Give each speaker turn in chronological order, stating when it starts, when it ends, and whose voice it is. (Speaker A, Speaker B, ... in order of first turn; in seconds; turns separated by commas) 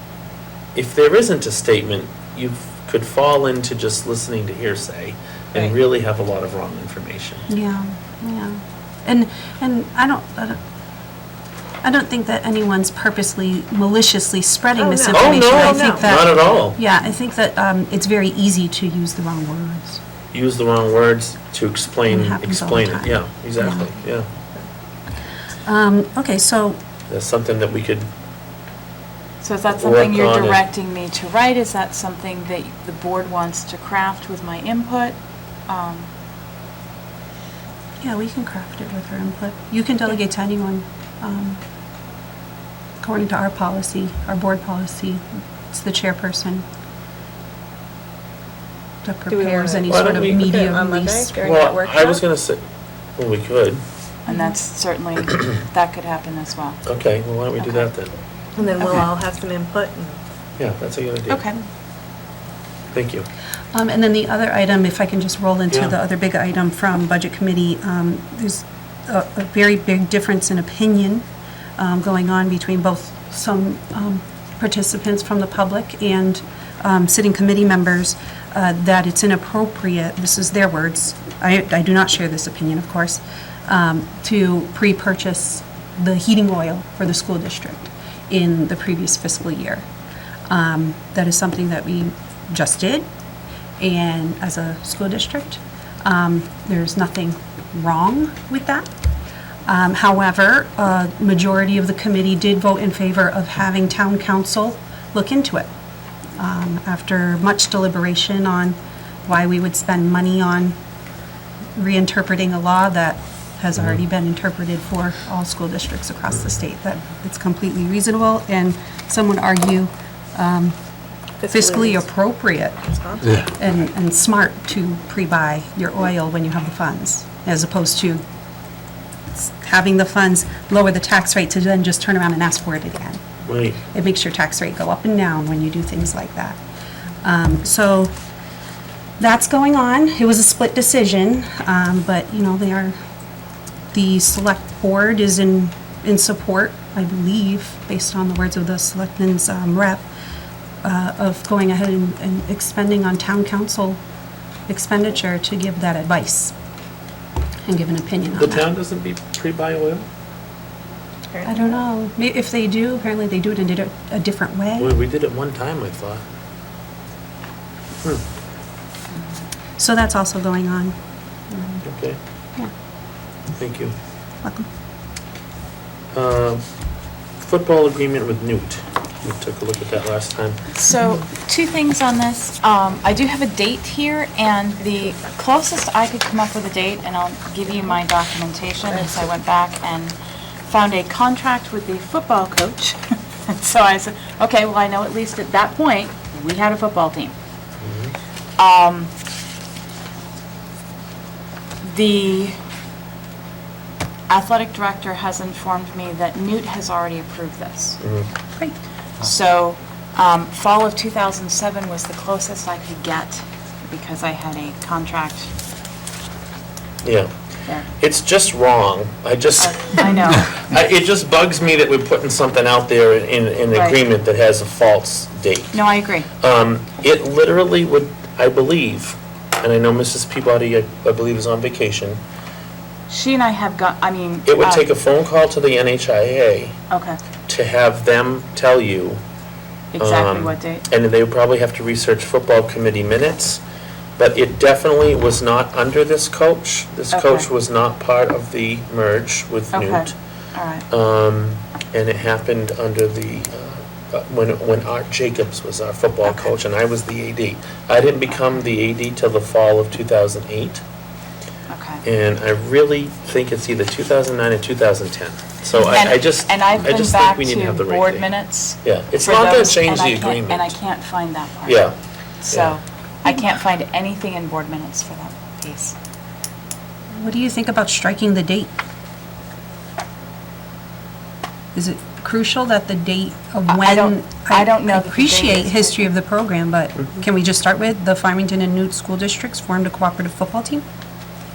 Speaker A: 0.8-7.5, Speaker B: 7.5-10.6, Speaker B: 11.8-20.0, Speaker C: 14.8-16.1, Speaker A: 15.1-16.8, Speaker A: 20.3-24.3, Speaker B: 22.1-23.9, Speaker B: 25.7-26.8, Speaker A: 27.1-28.1, Speaker D: 29.4-35.2, Speaker A: 29.7-30.6, Speaker D: 35.7-36.1, Speaker B: 38.0-41.6, Speaker B: 43.0-46.6, Speaker B: 49.0-51.3, Speaker C: 49.3-52.2, Speaker A: 49.9-50.4, Speaker A: 51.4-52.6, Speaker A: 53.2-53.8, Speaker D: 54.3-56.8, Speaker A: 56.9-58.1, Speaker C: 58.6-60.2, Speaker A: 60.6-61.4, Speaker D: 61.3-61.6, Speaker A: 62.9-63.3, Speaker B: 63.7-71.2, Speaker B: 71.8-89.8, Speaker B: 90.5-93.1, Speaker B: 93.8-98.9, Speaker B: 99.7-105.7, Speaker B: 106.4-110.8, Speaker B: 111.8-120.8, Speaker A: 116.3-116.6, Speaker C: 121.4-122.0, Speaker B: 121.5-128.2, Speaker C: 122.8-123.4, Speaker B: 129.3-133.2, Speaker A: 133.5-133.8, Speaker B: 133.9-136.6, Speaker B: 137.2-138.1, Speaker B: 139.2-142.9, Speaker B: 143.9-150.1, Speaker B: 150.8-154.0, Speaker B: 154.7-156.5, Speaker B: 157.7-158.7, Speaker A: 158.3-160.1, Speaker C: 161.3-161.6, Speaker B: 161.4-164.9, Speaker A: 164.8-166.2, Speaker B: 169.8-170.9, Speaker B: 171.5-171.8, Speaker A: 171.8-172.2, Speaker A: 173.6-173.9, Speaker A: 176.1-176.6, Speaker A: 177.4-180.6, Speaker D: 180.7-197.3, Speaker A: 197.8-198.1, Speaker D: 198.6-199.1, Speaker D: 201.8-202.6, Speaker D: 204.3-208.0, Speaker A: 208.0-208.3, Speaker D: 208.6-215.5, Speaker A: 217.0-217.3, Speaker A: 218.0-225.8, Speaker D: 219.6-220.5, Speaker D: 223.7-224.0, Speaker D: 225.7-226.3, Speaker A: 226.4-232.2, Speaker D: 233.1-234.9, Speaker A: 234.5-236.8, Speaker D: 236.9-237.2, Speaker A: 237.5-239.2, Speaker D: 239.9-240.8, Speaker A: 240.0-243.6, Speaker A: 244.2-250.1, Speaker D: 247.1-247.5, Speaker D: 249.7-250.8, Speaker A: 250.9-260.8, Speaker D: 261.7-262.0, Speaker A: 262.1-268.3, Speaker D: 265.8-271.9, Speaker A: 268.8-270.8, Speaker A: 271.7-271.9, Speaker D: 272.4-276.0, Speaker B: 277.1-278.7, Speaker B: 281.8-290.8, Speaker D: 283.7-286.1